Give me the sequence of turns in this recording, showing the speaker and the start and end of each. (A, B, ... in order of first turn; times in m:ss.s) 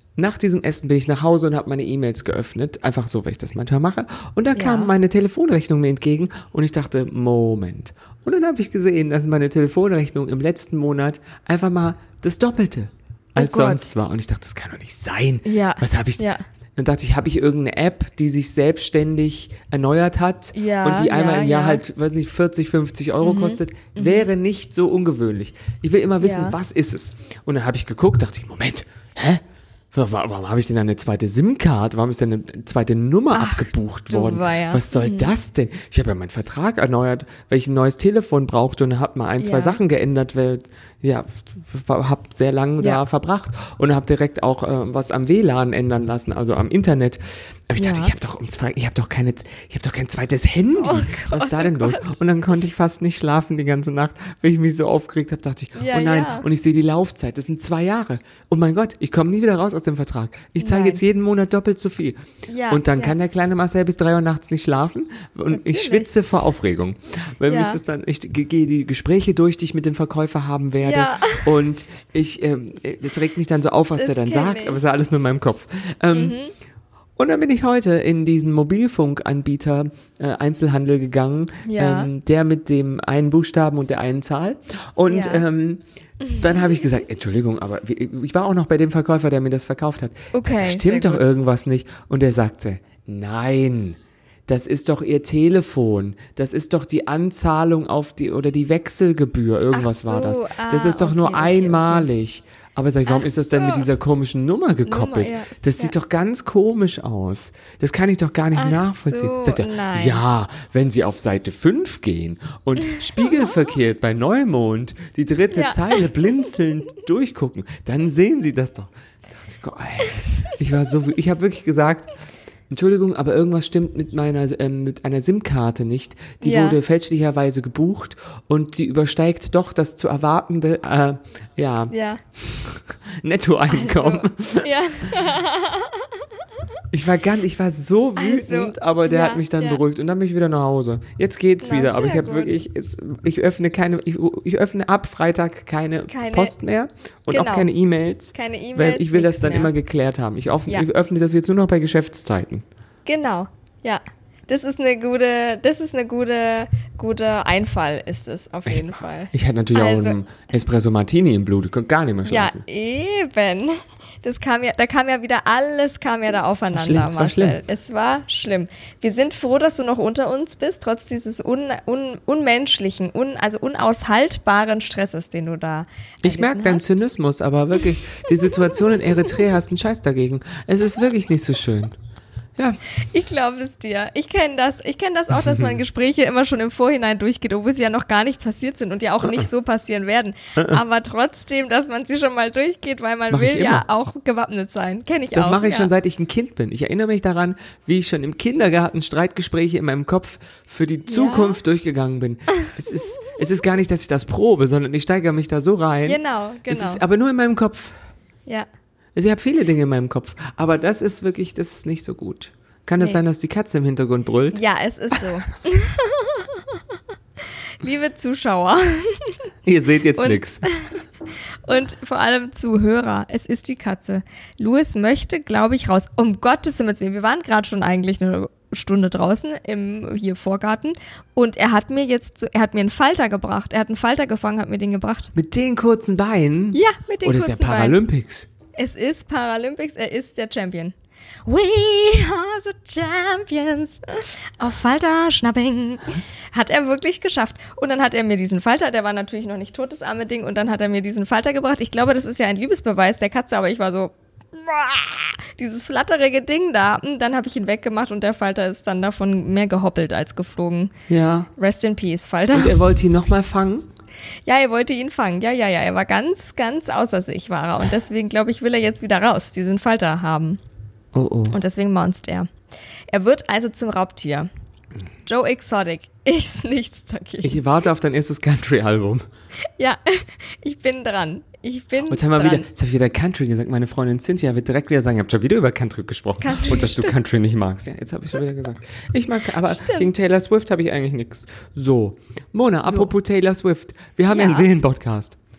0:00.2-1:16.4 A
0:04.6-0:04.9 B
0:13.3-0:13.9 B
0:15.4-0:16.4 B
0:20.5-0:21.8 B
0:23.2-0:24.3 B
0:26.2-0:26.6 B
0:33.3-0:35.3 B
0:39.4-0:39.8 B
0:47.8-0:48.1 B
0:50.8-0:52.2 B
0:55.8-0:56.5 B
1:00.6-1:01.0 B
1:02.5-1:03.2 B
1:05.5-1:06.1 B
1:07.5-1:07.8 B
1:10.8-1:11.5 B
1:14.0-1:14.8 B
1:16.1-1:16.5 B
1:17.2-1:25.8 A
1:21.6-1:22.1 B
1:25.1-1:25.4 B
1:26.3-2:02.1 A
1:30.3-1:31.3 B
1:39.7-1:42.1 B
1:43.1-1:43.9 B
1:44.9-1:45.9 B
1:48.6-1:50.2 B
1:55.5-1:55.9 B
2:02.7-2:15.1 A
2:06.4-2:06.8 B
2:11.9-2:12.2 B
2:13.7-2:16.0 B
2:16.9-2:32.6 A
2:18.2-2:19.8 B
2:21.6-2:22.6 B
2:26.1-2:26.5 B
2:27.3-2:27.7 B
2:28.3-2:29.7 B
2:33.1-2:40.2 B
2:38.7-2:42.6 A
2:42.2-2:57.0 B
2:46.7-2:47.6 A
2:56.2-3:02.0 A
3:03.1-3:15.9 B
3:05.4-3:05.7 A
3:13.3-3:13.8 A
3:15.3-3:28.0 A
3:21.1-3:21.6 B
3:26.0-3:27.0 B
3:29.1-3:34.6 A
3:34.5-3:36.5 B
3:37.8-3:39.4 B
3:39.6-3:40.7 A
3:40.2-3:40.9 B
3:41.6-3:55.3 B
3:55.4-3:58.5 A
3:56.7-3:58.0 B
3:58.8-4:00.9 B
4:01.4-4:20.9 B
4:21.1-4:21.5 A
4:21.6-4:22.8 B
4:22.5-4:23.9 A
4:24.4-4:30.6 B
4:31.1-4:31.6 A
4:31.5-4:32.5 B
4:33.1-4:34.5 B
4:35.2-4:37.6 B
4:37.4-4:39.3 A
4:39.8-4:42.7 B
4:42.1-4:55.4 A
4:46.4-4:47.1 B
4:49.7-4:50.1 B
4:52.8-4:53.1 B
4:54.3-4:54.7 B